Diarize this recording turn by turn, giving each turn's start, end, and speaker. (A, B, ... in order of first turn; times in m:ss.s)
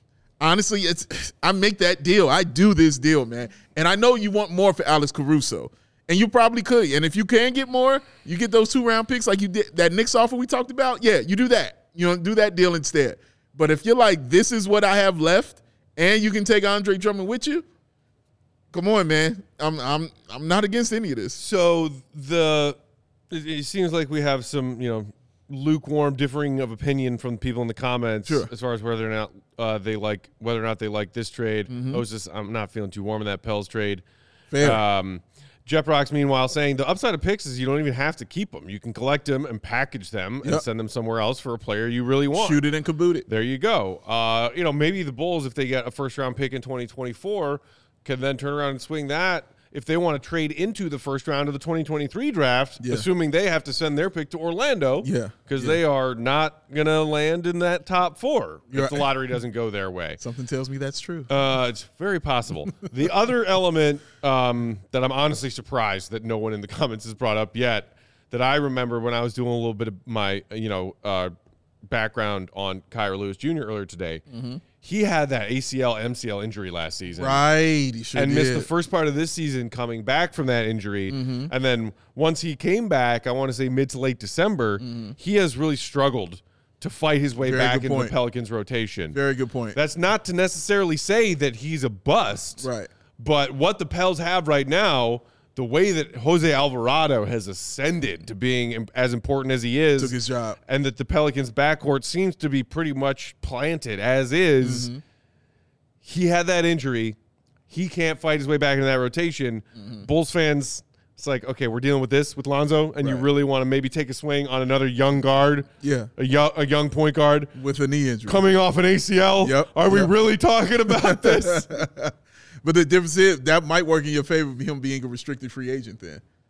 0:00.4-0:17.6 A
0:18.7-0:21.4 A
0:21.4-0:22.8 B
0:23.3-0:34.0 B
0:31.7-0:32.0 A
0:34.5-0:34.8 A
0:34.6-0:42.6 B
0:42.3-0:43.2 A
0:43.3-1:00.2 B
0:52.8-0:53.1 A
0:55.0-0:55.8 A
0:58.7-0:59.1 A
1:00.2-1:01.3 A
1:01.3-1:11.3 B
1:11.9-1:14.2 B
1:14.3-1:14.6 A
1:14.8-1:17.4 B
1:17.2-1:18.7 A
1:18.1-1:29.2 B
1:21.1-1:21.5 A
1:24.8-1:25.2 A
1:27.4-1:28.1 A
1:29.1-1:29.8 A
1:29.7-1:40.2 B
1:32.6-1:32.9 A
1:40.0-1:40.6 A
1:40.7-1:44.9 B
1:44.6-1:45.0 A
1:46.0-1:47.2 B
1:47.7-1:57.6 B
1:55.8-1:56.1 A
1:57.6-1:58.4 A
1:58.3-2:01.7 B
1:59.4-2:00.1 A
2:00.9-2:06.2 A